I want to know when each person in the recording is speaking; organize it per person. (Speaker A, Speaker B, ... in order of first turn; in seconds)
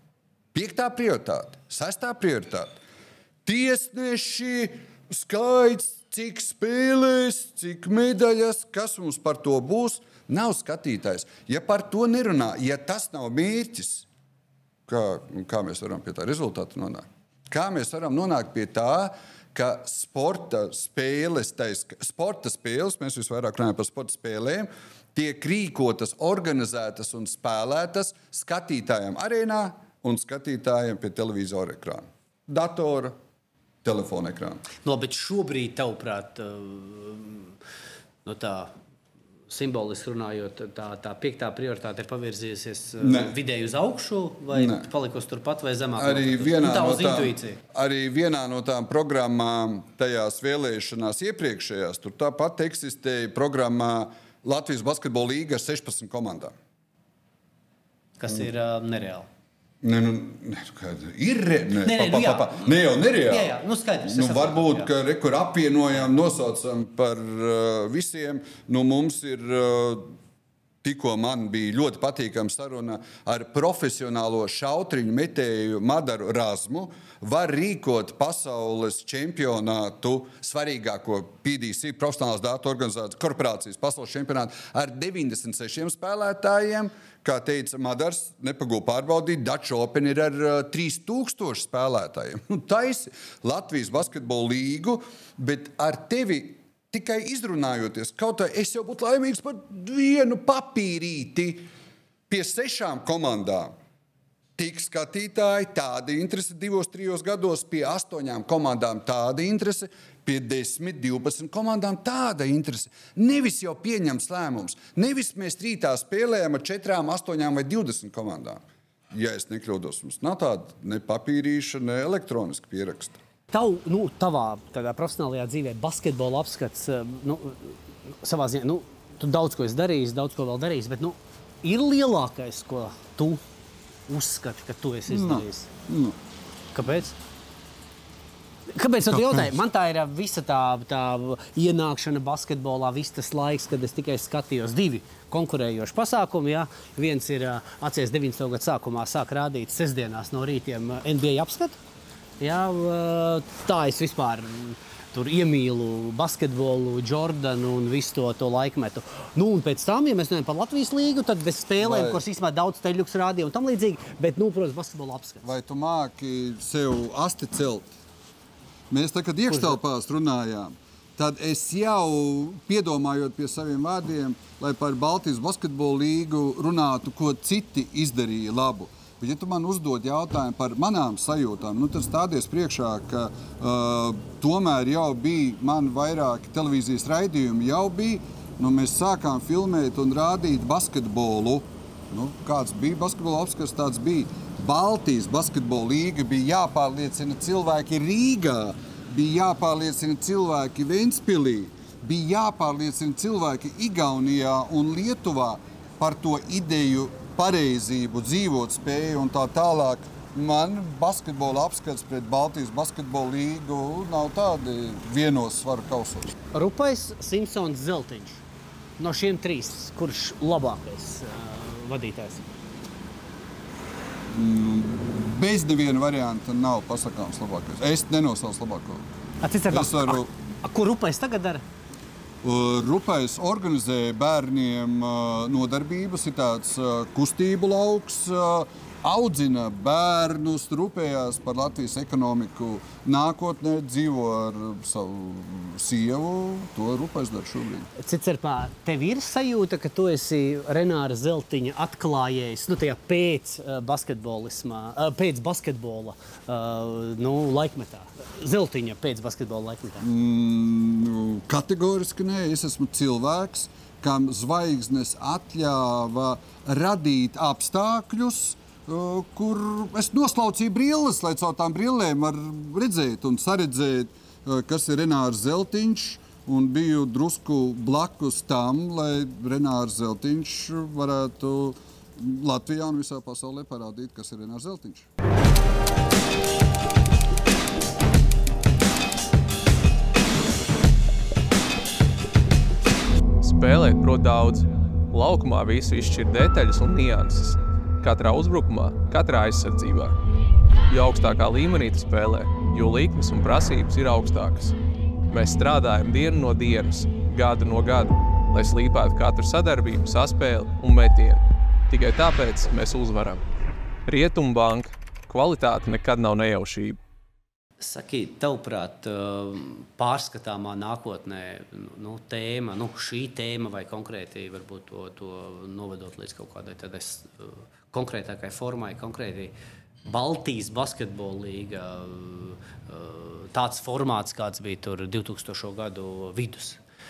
Speaker A: 0.5-2.8, 3.4-14.1, 14.9-33.1, 33.8-34.6, 43.0-43.3, 44.5-44.9, 46.0-56.5, 59.8-70.0, 70.8-101.7, 102.3-103.7, 104.6-123.2, 135.1-136.2, 139.1-139.5, 161.8-162.2, 165.4-167.9, 168.9-216.3, 224.3-229.0, 229.7-230.3, 232.4-247.9, 260.0-285.1
Speaker B: 34.8-37.5, 38.2-38.7, 39.5-47.6, 58.2-59.3, 61.8-62.7, 63.3-64.9, 123.5-133.4, 134.1-135.7, 136.7-137.2, 138.7-151.8, 152.4-165.5, 216.5-218.4, 219.0-222.5, 229.4-231.6, 247.9-260.1, 317.8-329.5, 330.1-336.8
Speaker C: 293.4-300.1, 300.9-304.8, 305.3-313.4, 314.1-317.0